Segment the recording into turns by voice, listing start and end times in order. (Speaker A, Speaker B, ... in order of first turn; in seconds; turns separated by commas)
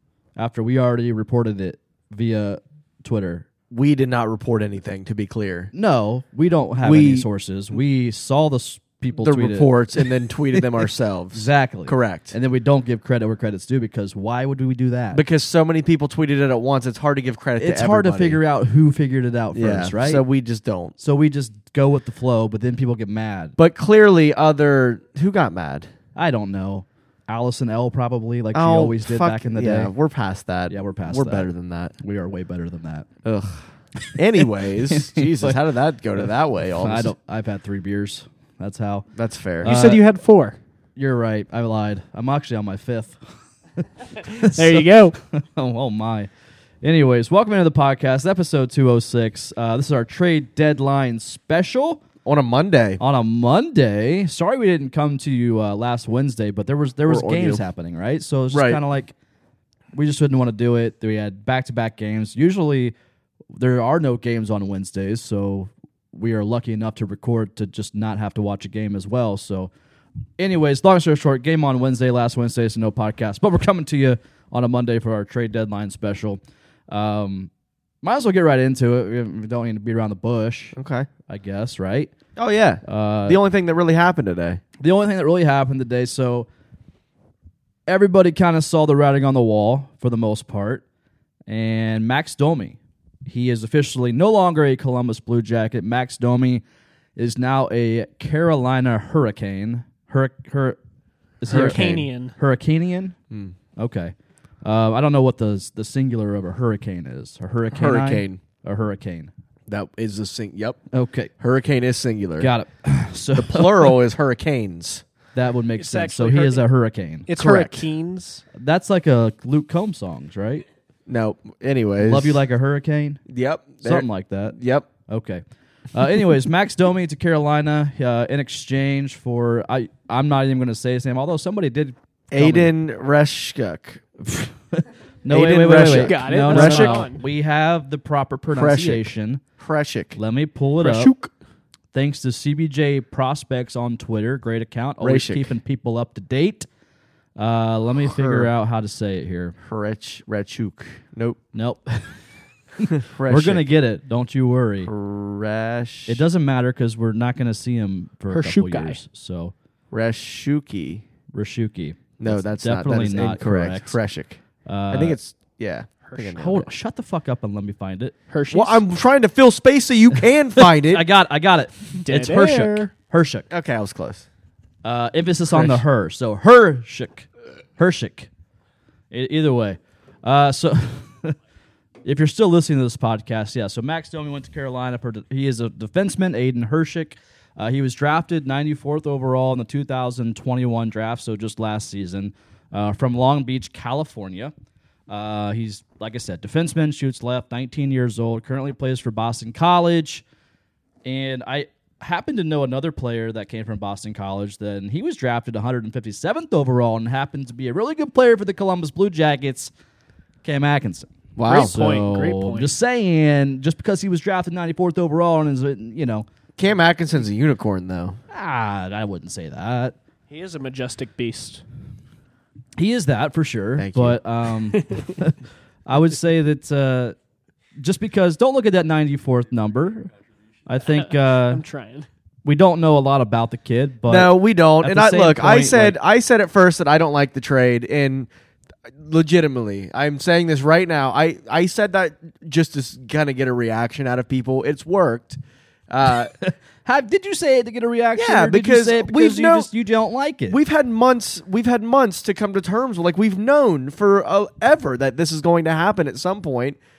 Speaker A: 0.3-3.5, Speaker B: 3.7-5.7, Speaker A: 5.7-9.7, Speaker B: 6.8-7.3, Speaker B: 9.2-12.3, Speaker A: 11.3-15.2, Speaker B: 15.1-18.4, Speaker A: 17.6-20.2, Speaker B: 19.5-20.9, Speaker A: 21.0-23.6, Speaker B: 23.6-25.9, Speaker A: 26.1-29.9, Speaker B: 28.5-31.9, Speaker A: 30.7-33.1, Speaker B: 33.2-37.1, Speaker A: 34.9-35.6, Speaker A: 36.8-39.1, Speaker B: 39.1-39.8, Speaker A: 39.6-40.0, Speaker C: 39.6-40.6, Speaker A: 41.0-46.3, Speaker C: 44.4-45.2, Speaker A: 46.8-52.0, Speaker B: 52.2-53.0, Speaker A: 53.0-59.1, Speaker B: 57.1-57.6, Speaker B: 58.5-58.8, Speaker A: 59.9-62.9, Speaker A: 63.5-69.7, Speaker A: 70.4-77.5, Speaker A: 78.0-80.8, Speaker B: 80.7-81.1, Speaker A: 81.3-82.1, Speaker B: 82.3-84.6, Speaker A: 82.8-83.4, Speaker A: 84.8-86.5, Speaker A: 87.9-90.8, Speaker A: 91.5-96.6, Speaker A: 97.2-100.8, Speaker A: 101.4-103.2, Speaker B: 101.5-101.9, Speaker C: 101.5-102.3, Speaker A: 103.8-109.3, Speaker B: 107.7-108.4, Speaker B: 109.7-110.8, Speaker A: 110.9-111.3, Speaker B: 111.4-112.5, Speaker A: 112.4-114.0, Speaker B: 113.3-115.0, Speaker A: 115.3-117.3, Speaker C: 115.8-116.6, Speaker C: 117.3-118.4, Speaker B: 117.4-117.9, Speaker A: 118.5-120.6, Speaker B: 121.1-122.4, Speaker A: 122.0-123.2, Speaker B: 123.2-124.9, Speaker A: 123.8-132.7, Speaker B: 132.3-134.0, Speaker A: 134.2-139.4, Speaker B: 135.3-137.1, Speaker C: 135.7-137.2, Speaker B: 138.5-140.2, Speaker A: 140.2-141.1, Speaker C: 140.8-141.3, Speaker A: 141.9-146.7, Speaker B: 145.0-145.5, Speaker A: 147.4-149.6, Speaker B: 148.0-148.5, Speaker B: 149.6-151.4, Speaker A: 151.5-152.2, Speaker A: 152.8-154.9, Speaker B: 152.9-153.6, Speaker B: 154.8-156.2, Speaker A: 156.1-159.5, Speaker C: 158.3-159.0, Speaker B: 159.9-161.0, Speaker A: 161.3-164.0, Speaker B: 162.2-166.7, Speaker A: 164.6-165.2, Speaker A: 166.3-168.1, Speaker C: 168.3-168.8, Speaker B: 168.5-171.0, Speaker A: 170.6-173.5, Speaker C: 172.0-172.9, Speaker B: 173.5-174.2, Speaker A: 174.8-178.3, Speaker B: 175.5-175.8, Speaker A: 179.1-181.4, Speaker A: 182.0-194.5, Speaker A: 195.1-200.2, Speaker A: 201.0-209.7, Speaker A: 210.4-216.3, Speaker B: 211.3-211.8, Speaker C: 211.4-212.7, Speaker B: 216.6-218.2, Speaker A: 218.3-219.9, Speaker C: 220.3-221.6, Speaker A: 222.8-227.2, Speaker B: 223.8-224.2, Speaker A: 227.8-230.1, Speaker A: 230.7-231.6, Speaker C: 231.3-232.1, Speaker A: 232.4-236.0, Speaker B: 234.1-238.3, Speaker B: 238.9-246.3, Speaker A: 246.4-250.6, Speaker B: 248.2-249.7, Speaker B: 250.5-256.8